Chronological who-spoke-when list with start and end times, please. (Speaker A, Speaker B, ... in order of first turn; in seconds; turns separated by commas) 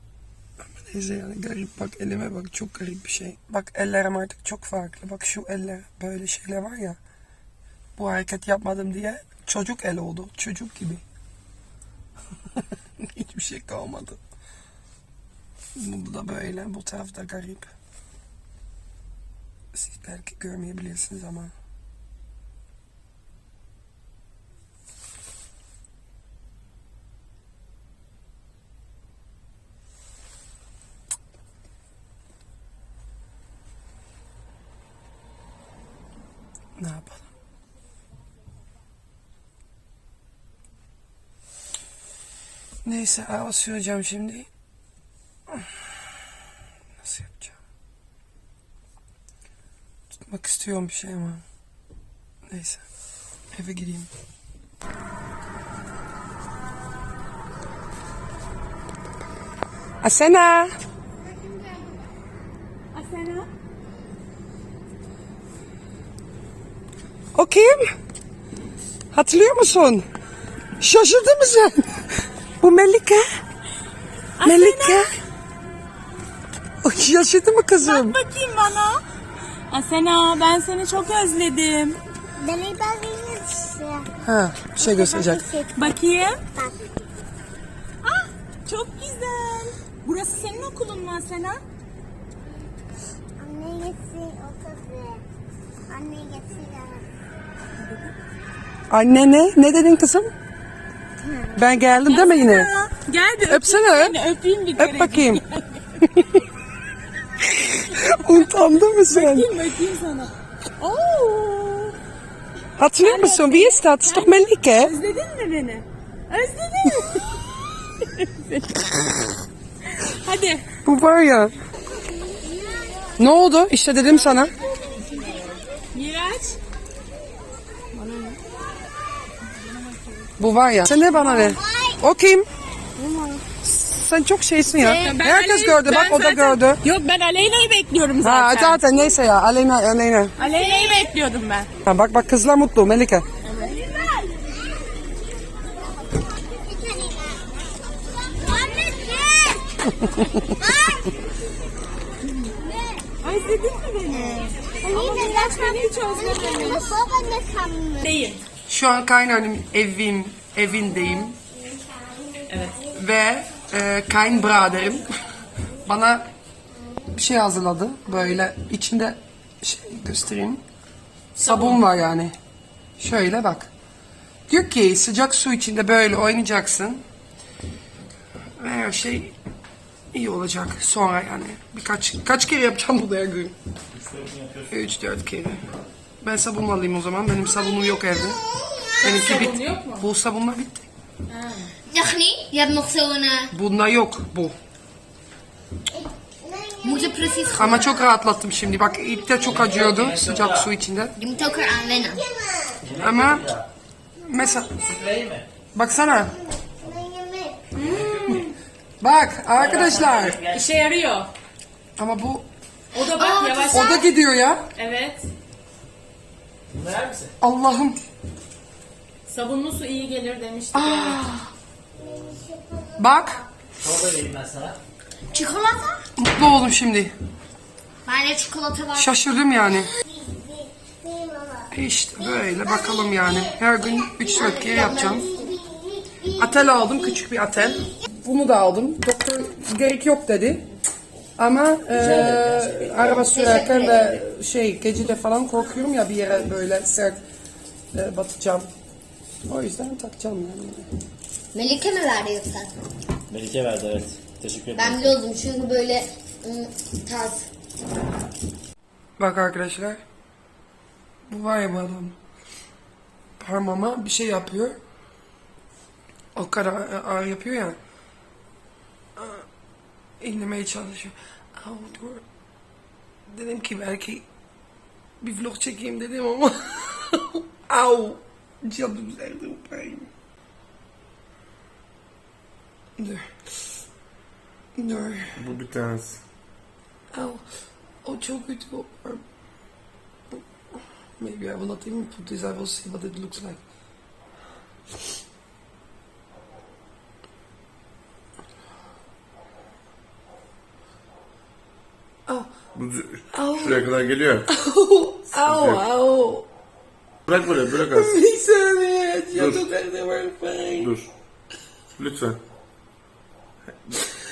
Speaker A: 0.6-7.0, Speaker A: 8.0-11.0, Speaker A: 13.0-14.2, Speaker A: 15.8-17.7, Speaker A: 19.7-21.5, Speaker A: 36.8-37.3, Speaker A: 42.8-44.5, Speaker A: 47.0-47.6, Speaker A: 50.1-51.4, Speaker A: 52.5-52.8, Speaker A: 53.5-54.1, Speaker A: 60.0-60.7, Speaker B: 62.9-63.5, Speaker A: 67.3-67.9, Speaker A: 69.1-70.1, Speaker A: 70.8-72.1, Speaker A: 72.6-73.2, Speaker B: 74.4-75.1, Speaker A: 74.4-75.1, Speaker A: 76.8-78.2, Speaker B: 77.8-79.0, Speaker B: 79.7-82.0, Speaker C: 82.5-83.6, Speaker D: 83.3-84.0, Speaker A: 84.2-85.5, Speaker B: 84.8-86.4, Speaker B: 88.0-91.6, Speaker C: 93.5-94.5, Speaker D: 96.5-97.0, Speaker A: 98.9-100.3, Speaker A: 101.5-102.7, Speaker B: 102.1-105.8, Speaker A: 103.5-104.2, Speaker A: 104.8-105.4, Speaker A: 106.0-106.4, Speaker A: 107.5-109.5, Speaker B: 107.9-108.4, Speaker B: 109.1-112.0, Speaker A: 112.8-115.0, Speaker B: 113.0-120.6, Speaker A: 120.8-121.5, Speaker A: 123.2-124.5, Speaker B: 125.9-126.6, Speaker A: 130.4-132.5, Speaker B: 133.0-133.4, Speaker A: 133.7-136.8, Speaker B: 134.7-139.0, Speaker A: 138.2-140.3, Speaker B: 140.4-141.7, Speaker A: 141.8-143.2, Speaker B: 143.4-144.4, Speaker D: 146.5-147.3, Speaker B: 148.5-149.4, Speaker A: 149.9-150.7, Speaker B: 153.2-157.2, Speaker C: 157.6-157.8, Speaker B: 158.0-158.4, Speaker A: 158.7-161.4, Speaker B: 162.5-162.8, Speaker A: 162.9-165.1, Speaker A: 165.8-166.2, Speaker A: 167.1-170.6, Speaker B: 171.4-171.8, Speaker A: 171.4-172.3, Speaker A: 173.0-173.7, Speaker A: 174.5-177.0, Speaker A: 178.6-179.3, Speaker A: 180.1-183.6, Speaker E: 183.9-184.7, Speaker A: 184.7-185.6, Speaker A: 186.2-188.4, Speaker B: 189.0-190.1, Speaker A: 189.0-190.9, Speaker B: 191.3-191.7, Speaker F: 191.9-193.5, Speaker A: 193.5-194.6, Speaker D: 196.4-196.8, Speaker F: 196.8-197.9, Speaker A: 197.5-201.2, Speaker E: 199.4-200.7, Speaker F: 201.2-202.2, Speaker D: 202.4-202.7, Speaker E: 202.8-203.7, Speaker A: 202.9-203.5, Speaker A: 204.2-204.8, Speaker E: 204.8-205.5, Speaker A: 205.7-206.3, Speaker D: 207.1-207.6, Speaker A: 207.8-208.4, Speaker E: 207.8-208.4, Speaker A: 209.0-210.4, Speaker E: 209.5-210.7, Speaker B: 210.4-211.3, Speaker A: 212.0-212.5, Speaker B: 212.9-214.1, Speaker F: 213.1-213.9, Speaker A: 213.7-214.7, Speaker B: 214.8-215.3, Speaker E: 216.7-217.3, Speaker A: 217.4-218.0, Speaker B: 219.3-221.2, Speaker A: 220.7-221.5, Speaker D: 222.5-222.9, Speaker A: 222.9-223.4, Speaker E: 223.8-224.8, Speaker F: 225.3-226.0, Speaker A: 226.2-227.1, Speaker F: 228.1-229.1, Speaker A: 228.9-229.9, Speaker D: 230.1-231.6, Speaker A: 231.7-235.3, Speaker F: 232.9-233.4, Speaker F: 234.2-235.6, Speaker D: 235.8-236.3, Speaker A: 236.3-240.6, Speaker A: 241.4-247.2, Speaker E: 241.9-243.1, Speaker F: 243.0-244.0, Speaker A: 247.9-248.7, Speaker A: 249.5-250.9, Speaker F: 251.5-252.7, Speaker E: 253.3-255.2, Speaker F: 254.7-257.5, Speaker A: 259.2-260.0, Speaker A: 261.3-262.2, Speaker A: 263.4-264.8, Speaker A: 266.4-267.8, Speaker A: 269.2-269.4, Speaker A: 270.2-272.2, Speaker A: 273.3-274.3, Speaker A: 275.2-280.1, Speaker A: 283.0-283.2, Speaker A: 284.8-285.4, Speaker D: 285.4-286.2, Speaker A: 287.1-287.4, Speaker A: 288.0-289.2, Speaker A: 291.2-293.6, Speaker D: 302.7-304.5, Speaker A: 303.3-303.9, Speaker A: 304.5-306.5, Speaker D: 305.4-305.8, Speaker D: 307.3-308.1, Speaker A: 307.3-310.9, Speaker D: 309.3-309.6, Speaker D: 310.8-311.1, Speaker D: 312.0-312.4